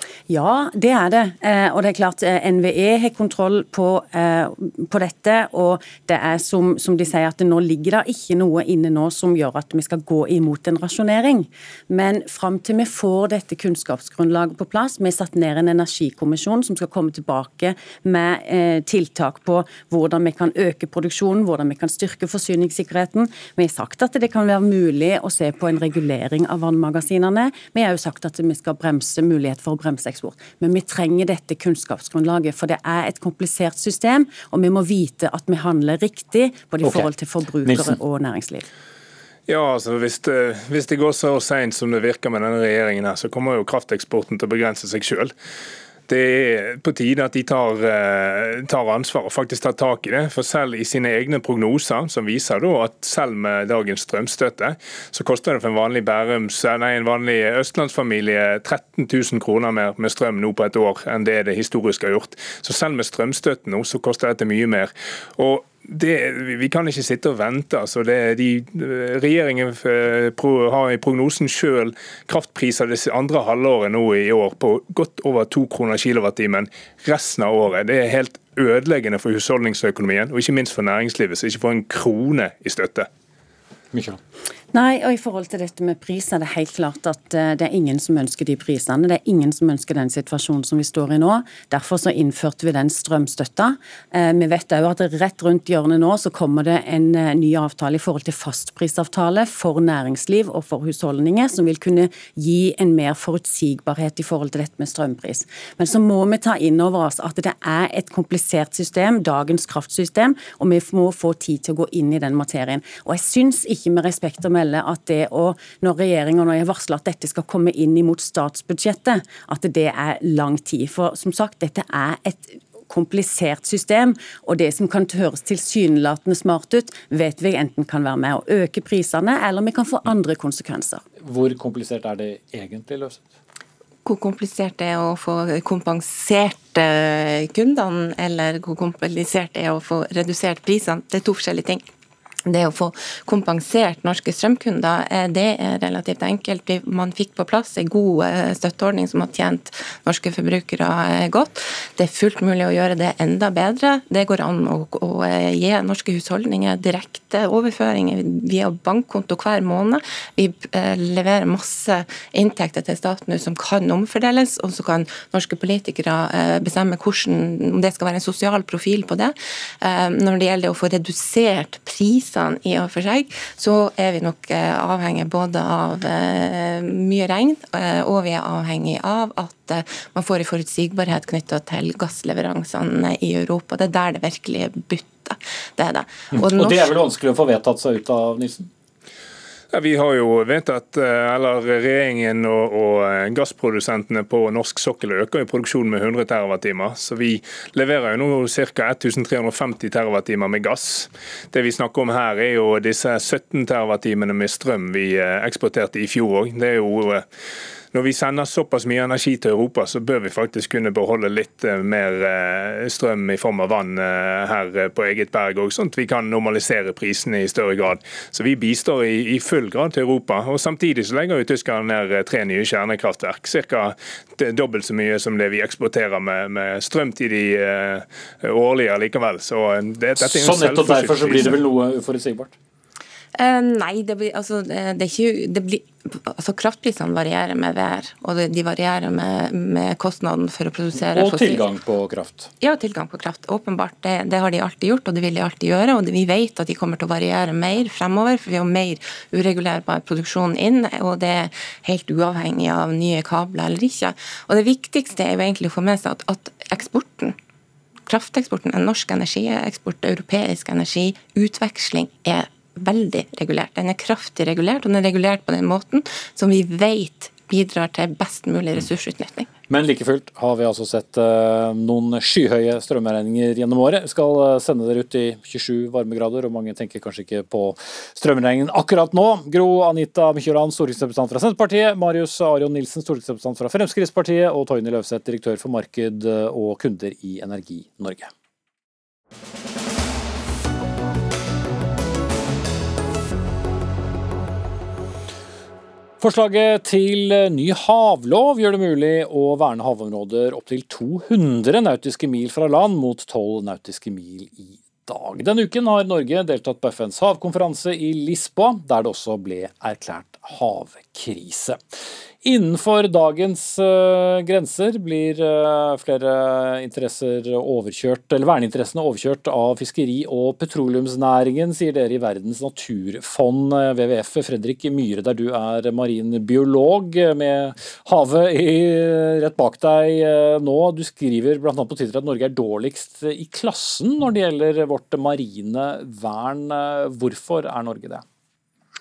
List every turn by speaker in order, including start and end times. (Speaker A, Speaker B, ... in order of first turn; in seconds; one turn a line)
Speaker A: 0.3-38.7
Speaker B: 36.8-37.1
Speaker B: 37.6-38.0
Speaker C: 39.5-45.3
Speaker C: 46.1-83.1
Speaker B: 83.9-84.2
Speaker A: 84.7-131.0
Speaker B: 131.2-133.3
Speaker D: 134.0-141.8
Speaker D: 142.4-186.9
Speaker B: 186.3-188.7
Speaker C: 189.7-207.2
Speaker C: 207.9-231.6
Speaker B: 230.2-232.5
Speaker D: 233.3-241.7
Speaker B: 241.1-242.5
Speaker D: 242.6-257.4
Speaker D: 258.1-269.5
Speaker B: 269.7-288.3
Speaker B: 296.2-338.2